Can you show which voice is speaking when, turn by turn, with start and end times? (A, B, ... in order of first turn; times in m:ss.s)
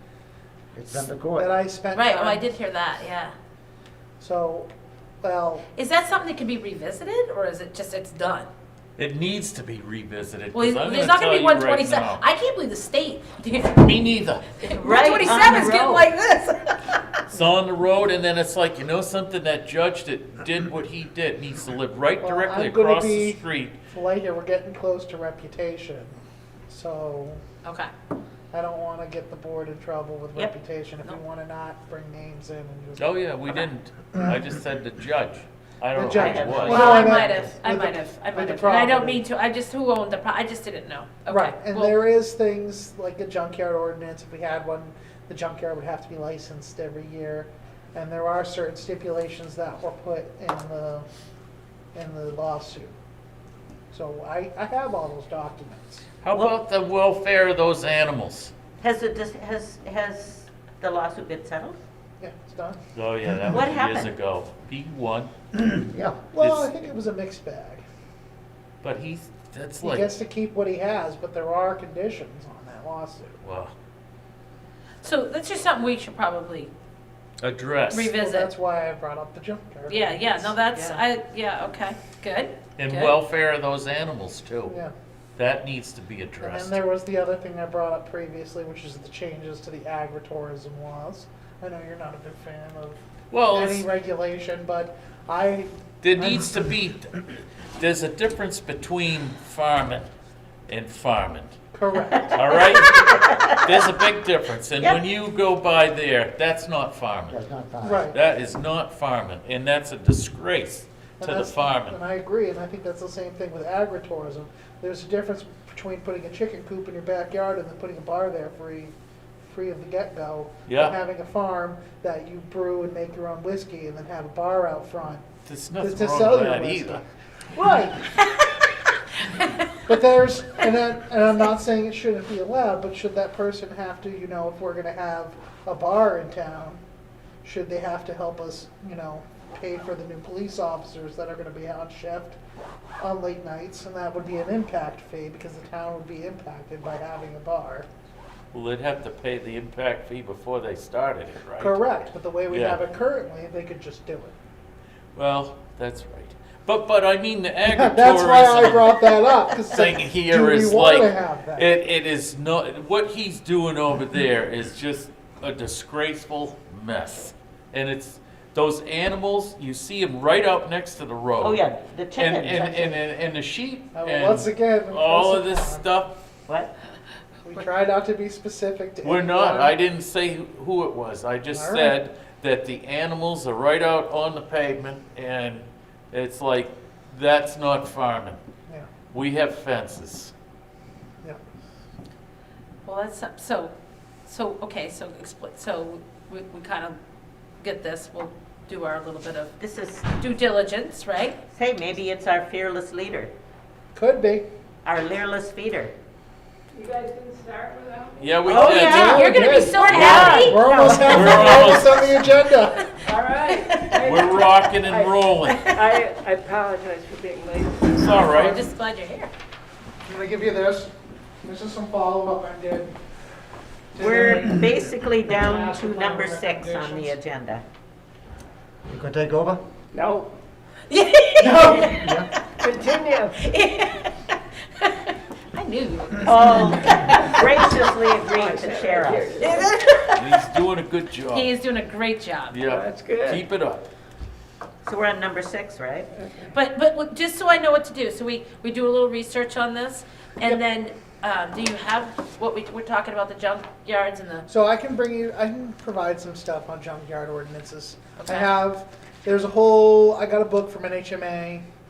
0:00.7-0:01.5 A
0:01.4-0:02.5 B
0:01.9-0:03.3 C
0:04.2-0:04.7 B
0:05.2-0:05.7 B
0:05.8-0:08.5 C
0:09.0-0:12.2 D
0:10.5-0:13.8 C
0:13.7-0:14.5 D
0:14.6-0:16.9 C
0:14.7-0:16.1 E
0:17.3-0:23.8 D
0:22.2-0:26.2 B
0:26.7-0:27.4 B
0:27.6-0:27.9 C
0:28.5-0:33.2 B
0:33.0-0:36.9 D
0:35.9-0:39.2 B
0:36.0-0:37.3 E
0:36.6-0:42.0 C
0:41.3-0:51.1 B
0:52.0-0:52.9 B
0:53.9-0:56.0 B
0:56.2-0:58.5 D
0:58.8-1:01.8 E
1:02.2-1:02.8 B
1:02.9-1:05.3 D
1:03.5-1:04.1 E
1:05.6-1:06.2 A
1:06.3-1:07.8 B
1:06.4-1:06.7 D
1:08.8-1:10.1 D
1:09.8-1:13.4 B
1:13.4-1:13.7 D
1:15.0-1:16.7 C
1:17.4-1:18.2 D
1:17.9-1:18.5 C
1:18.2-1:20.6 B
1:19.9-1:23.2 C
1:22.8-1:24.8 D
1:24.7-1:24.9 B
1:25.4-1:26.8 D
1:26.4-1:33.0 B
1:33.3-1:33.9 D
1:33.5-1:36.7 B
1:36.0-1:40.1 D
1:40.7-1:41.6 D
1:41.7-1:42.8 B
1:42.3-1:47.4 D
1:42.8-1:43.8 E
1:47.3-1:48.1 A
1:47.8-1:48.2 B
1:48.1-1:52.0 D
1:51.2-1:58.9 B
1:59.4-2:05.2 B
2:00.7-2:01.0 D
2:05.5-2:07.0 D
2:05.8-2:08.2 B
2:09.8-2:16.8 B
2:17.4-2:22.4 B
2:23.0-2:27.9 B
2:28.5-2:32.0 D
2:31.6-2:34.4 B
2:32.5-2:32.8 D
2:35.2-2:56.2 D
2:37.7-2:41.7 B
2:51.4-2:53.0 E
2:53.9-2:55.9 B
2:57.4-2:59.8 B
2:59.0-3:08.4 D
3:01.5-3:02.0 B
3:09.1-3:10.3 D
3:12.8-3:13.7 C
3:14.3-3:17.0 C
3:17.6-3:19.6 C
3:19.6-3:20.1 E
3:20.1-3:21.4 C
3:21.5-3:23.3 E
3:24.0-3:24.5 B
3:24.8-3:25.9 E
3:26.7-3:28.6 F
3:28.2-3:32.0 D
3:28.5-3:29.2 E
3:28.5-3:32.9 B
3:28.6-3:30.8 C
3:29.9-3:31.8 E
3:33.0-3:38.2 F
3:33.4-3:34.0 C
3:34.0-3:35.7 D
3:35.5-3:35.8 C
3:37.9-3:38.6 D
3:38.3-3:39.3 C
3:40.0-3:42.9 B
3:44.0-3:44.7 B
3:44.0-3:47.6 E
3:45.3-3:47.2 B
3:48.8-3:49.6 A
3:49.9-3:50.4 F
3:50.9-3:52.3 C
3:51.4-3:52.0 B
3:51.8-3:52.3 A
3:52.6-3:53.4 F
3:53.4-3:57.4 C
3:56.2-4:00.2 E
3:58.2-3:59.8 F
4:00.1-4:01.6 D
4:01.3-4:02.6 C
4:02.5-4:03.9 D
4:02.7-4:03.4 F
4:04.8-4:06.1 E
4:06.5-4:14.5 C
4:14.5-4:21.6 B
4:18.2-4:18.5 C